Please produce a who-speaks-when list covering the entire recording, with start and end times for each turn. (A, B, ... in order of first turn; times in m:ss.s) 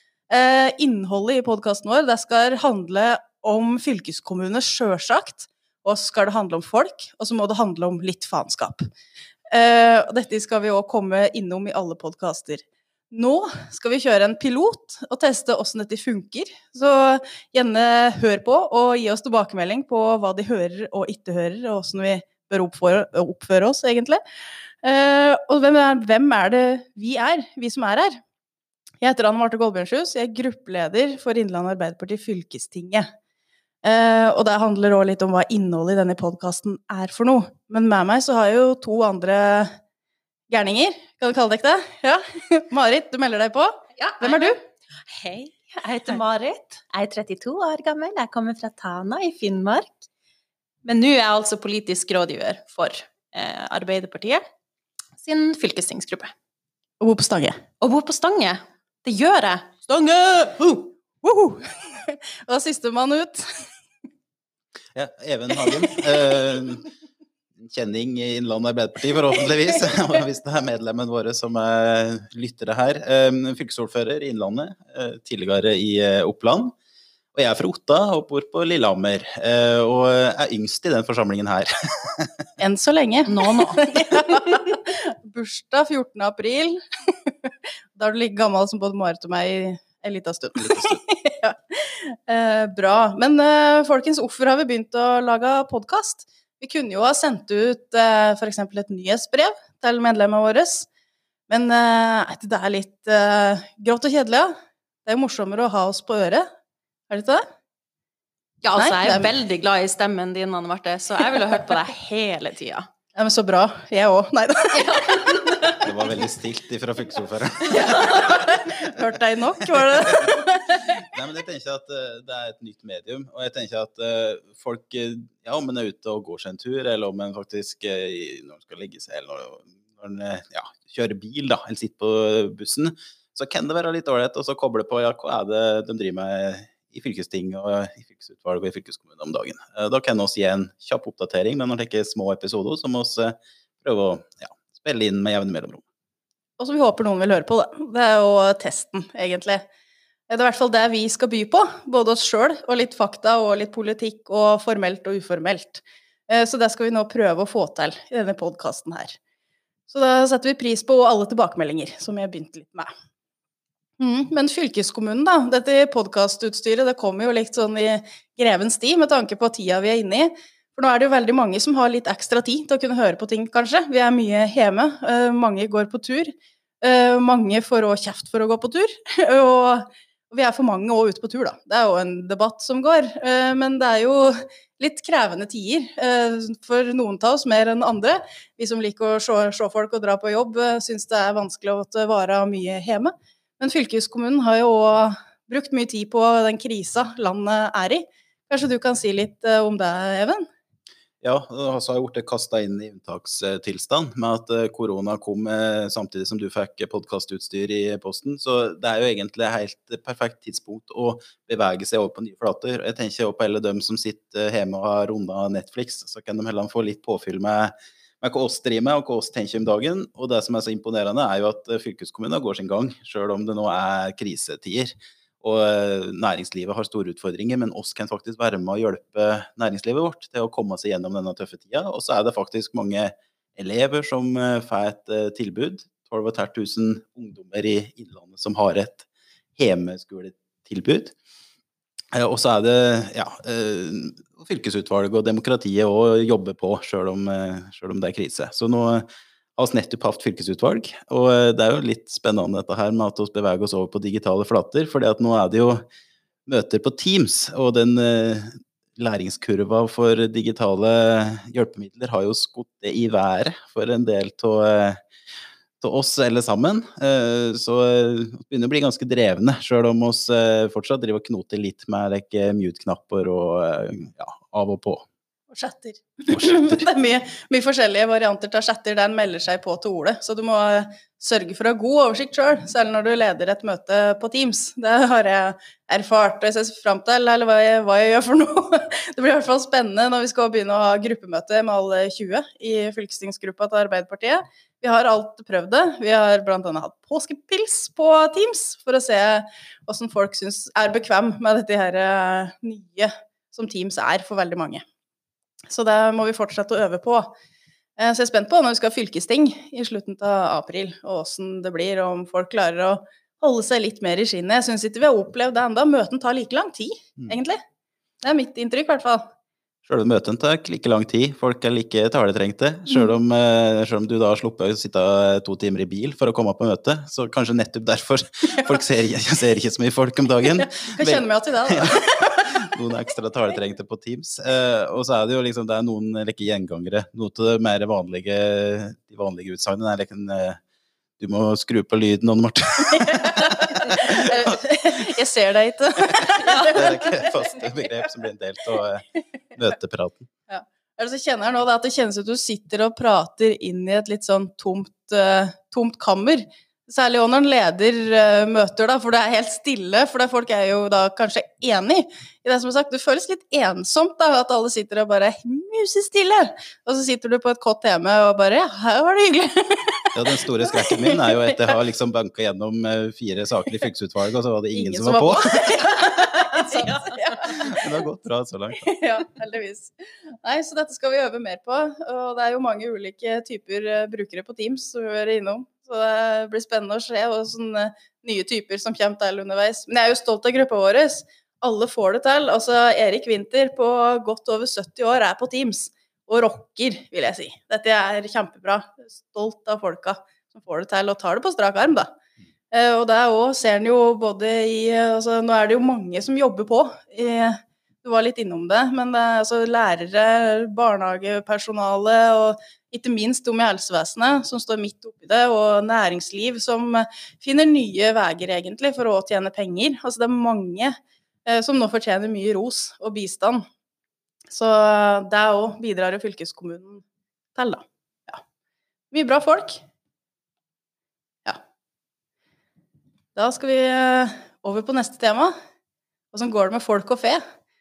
0:00.3-0:08.9 A
0:09.5-0:24.2 A
0:24.8-0:28.2 A
0:29.0-0:33.1 A
0:33.8-0:39.8 A
0:40.5-0:44.6 A
0:44.0-0:50.0 B
0:50.8-0:54.4 B
0:55.2-0:56.3 B
0:57.0-0:57.6 A
0:57.8-1:00.9 B
1:01.2-1:03.4 A
1:04.9-1:06.9 C
1:07.6-1:16.7 C
1:17.3-1:22.3 C
1:22.6-1:40.9 A
1:30.6-1:31.0 C
1:41.5-1:44.5 A
1:45.0-1:46.5 A
1:47.1-1:47.4 A
1:48.6-1:52.8 B
1:48.8-1:49.3 A
1:53.1-1:55.4 A
1:54.8-1:55.8 B
1:55.8-1:58.4 C
1:57.7-2:00.9 A
1:57.8-1:58.4 B
2:01.0-2:25.8 C
2:26.6-2:29.6 A
2:30.3-2:39.2 A
2:39.9-2:42.9 A
2:44.0-3:20.4 A
3:21.2-3:59.0 C
3:59.6-4:01.1 C
4:02.1-4:09.0 C
4:09.6-4:15.8 C
4:16.5-4:25.0 C
4:25.8-4:35.0 C
4:35.5-5:04.8 A
4:36.3-4:36.8 C
5:05.7-5:07.3 A
5:08.0-5:17.6 A
5:18.2-5:19.2 A
5:19.8-5:31.9 C
5:30.7-5:32.7 A
5:32.4-5:40.6 C
5:41.2-5:44.3 C
5:43.2-5:47.3 A
5:46.3-5:50.2 C
5:50.5-6:10.1 A
6:10.1-6:15.4 C
6:10.6-6:11.2 A
6:14.7-6:17.8 A
6:16.4-6:17.0 B
6:17.5-6:18.9 C
6:18.8-6:42.1 A
6:42.7-7:03.6 A
7:04.5-7:08.4 A
7:09.1-7:09.8 A
7:13.3-7:15.5 A
7:16.3-7:17.4 A